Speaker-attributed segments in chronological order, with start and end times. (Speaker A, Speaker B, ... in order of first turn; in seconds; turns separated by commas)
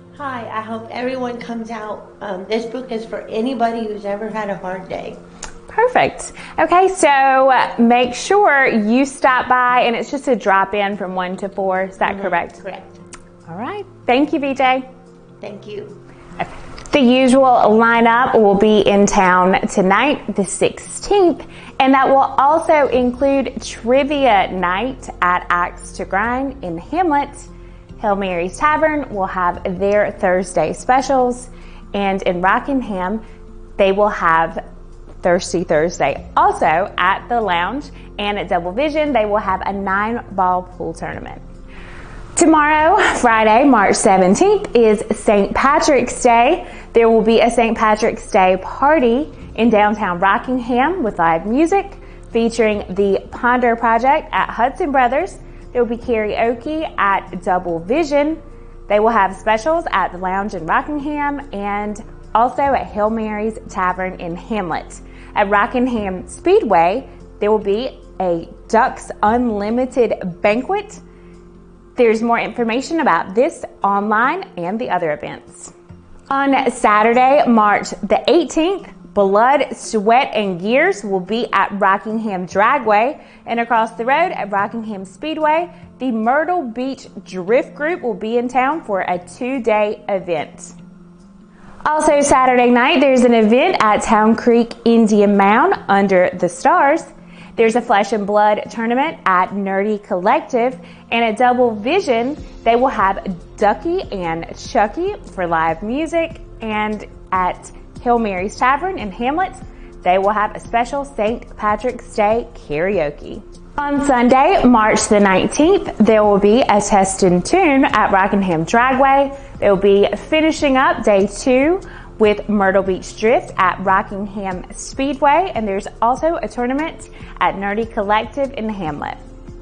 Speaker A: 0.1-5.2, Speaker B: 5.7-12.6, Speaker A: 12.0-12.9, Speaker B: 13.5-14.8, Speaker A: 15.4-16.0, Speaker B: 16.9-33.2, Speaker B: 33.8-34.6, Speaker B: 35.2-41.4, Speaker B: 42.4-71.0, Speaker B: 72.0-75.7, Speaker B: 76.3-90.7, Speaker B: 91.8-129.2